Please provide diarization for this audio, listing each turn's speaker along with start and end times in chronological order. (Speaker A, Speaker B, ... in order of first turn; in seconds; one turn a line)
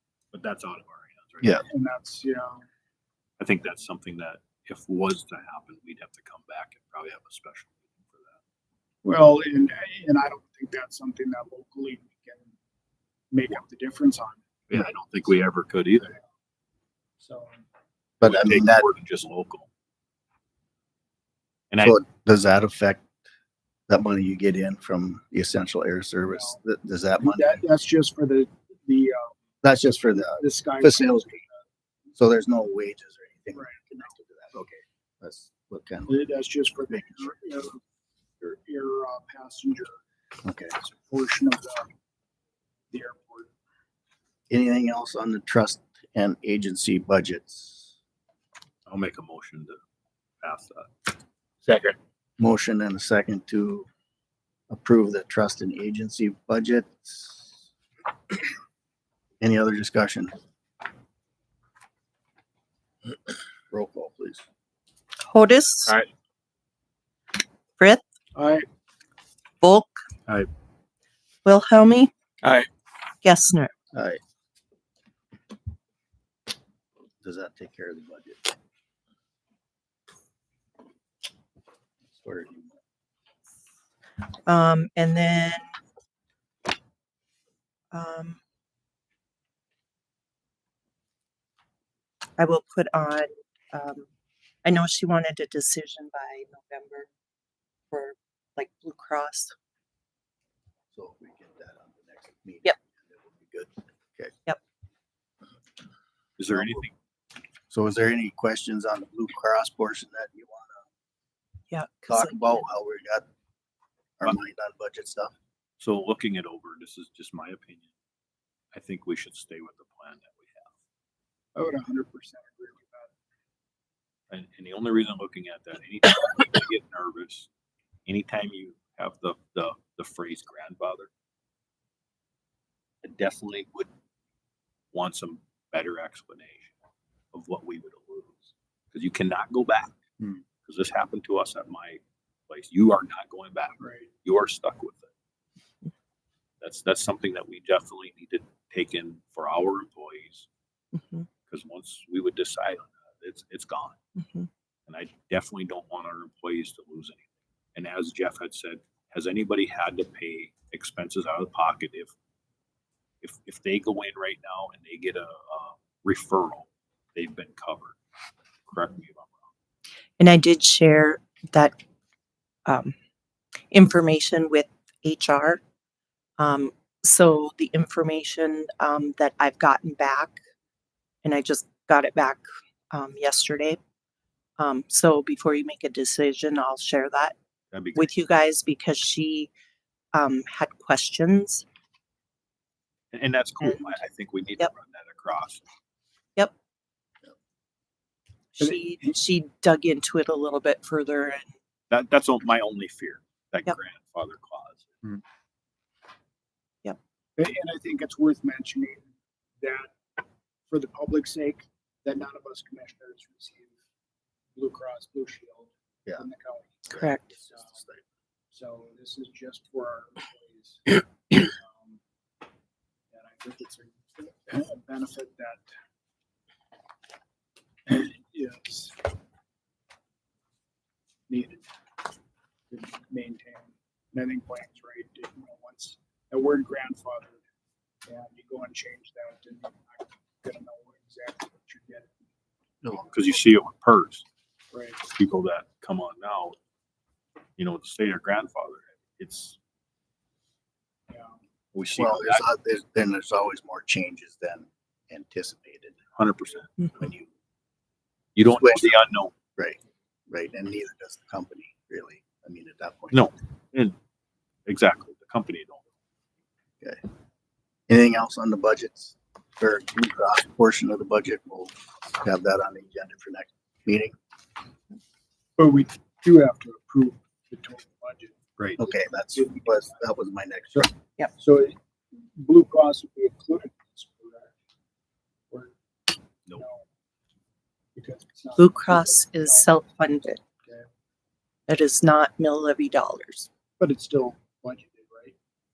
Speaker A: 0.3-1.6
Speaker B: 1.6-2.7
Speaker A: 3.4-8.4
Speaker B: 9.0-12.5
Speaker B: 13.3-14.4
Speaker A: 14.7-16.1
Speaker B: 17.2-17.7
Speaker C: 18.2-18.9
Speaker A: 18.2-19.7
Speaker A: 21.7-22.0
Speaker C: 21.8-23.1
Speaker C: 23.9-27.6
Speaker B: 26.3-26.6
Speaker B: 27.2-29.4
Speaker C: 29.6-31.4
Speaker B: 30.4-31.6
Speaker C: 32.1-36.2
Speaker B: 33.5-34.1
Speaker B: 36.1-37.8
Speaker C: 36.9-37.3
Speaker B: 38.4-40.0
Speaker C: 40.4-40.8
Speaker B: 40.8-41.9
Speaker B: 42.9-43.5
Speaker C: 44.5-47.9
Speaker A: 48.9-49.8
Speaker A: 50.4-50.9
Speaker A: 51.6-52.0
Speaker C: 52.4-53.9
Speaker C: 54.7-57.5
Speaker C: 59.4-60.3
Speaker C: 63.7-64.4
Speaker D: 65.2-66.0
Speaker D: 67.8-68.0
Speaker B: 68.3-68.7
Speaker D: 69.6-70.0
Speaker D: 71.4-72.1
Speaker D: 73.2-73.7
Speaker C: 73.9-74.2
Speaker C: 77.2-78.5
Speaker C: 82.1-82.8
Speaker D: 84.5-85.6
Speaker D: 87.9-88.4
Speaker D: 92.4-94.1
Speaker D: 94.6-97.1
Speaker D: 97.9-99.5
Speaker C: 100.9-104.3
Speaker A: 106.4-106.9
Speaker C: 106.5-106.8
Speaker C: 107.7-110.8
Speaker D: 111.7-112.6
Speaker C: 112.1-113.2
Speaker C: 114.2-115.3
Speaker A: 115.8-117.9
Speaker A: 118.7-120.7
Speaker B: 121.5-123.1
Speaker A: 124.3-127.5
Speaker A: 128.1-131.1
Speaker A: 133.0-133.9
Speaker A: 134.9-136.7
Speaker A: 137.3-139.9
Speaker A: 140.6-145.1
Speaker B: 143.8-144.1
Speaker A: 146.6-150.5
Speaker D: 150.9-151.3
Speaker A: 151.5-154.0
Speaker D: 154.2-154.5
Speaker A: 154.9-162.1
Speaker A: 163.2-168.0
Speaker A: 168.7-169.5
Speaker D: 170.2-171.8
Speaker D: 172.7-172.9
Speaker D: 173.7-175.6
Speaker D: 176.4-180.4
Speaker D: 181.2-183.8
Speaker D: 184.6-187.3
Speaker A: 187.7-188.1
Speaker D: 187.9-189.5
Speaker D: 190.1-191.7
Speaker A: 193.1-195.6
Speaker D: 198.6-201.5
Speaker B: 198.6-199.1
Speaker A: 201.9-205.1
Speaker B: 207.4-210.0
Speaker B: 210.7-213.8
Speaker B: 214.6-217.8
Speaker C: 216.9-218.0
Speaker D: 216.9-217.3
Speaker B: 218.5-222.0
Speaker B: 223.1-225.7
Speaker B: 227.9-229.0
Speaker B: 231.3-231.7
Speaker B: 232.7-237.4
Speaker B: 238.1-242.2
Speaker C: 242.8-243.1
Speaker A: 243.1-244.2
Speaker B: 244.7-245.0
Speaker A: 245.1-246.6
Speaker A: 247.6-249.6
Speaker B: 251.1-251.4
Speaker A: 251.7-252.4
Speaker C: 252.0-256.0
Speaker A: 256.1-257.1
Speaker C: 256.9-257.3
Speaker A: 258.4-259.3
Speaker C: 258.5-259.0
Speaker C: 259.6-263.2
Speaker A: 263.1-263.9
Speaker A: 264.7-265.8
Speaker C: 267.9-274.1
Speaker B: 275.6-278.4
Speaker C: 278.8-280.9
Speaker B: 279.3-280.0
Speaker B: 280.7-284.5
Speaker B: 286.5-286.9
Speaker B: 287.9-289.8
Speaker D: 288.6-290.4
Speaker B: 290.6-290.9
Speaker D: 291.7-293.5
Speaker B: 293.8-295.4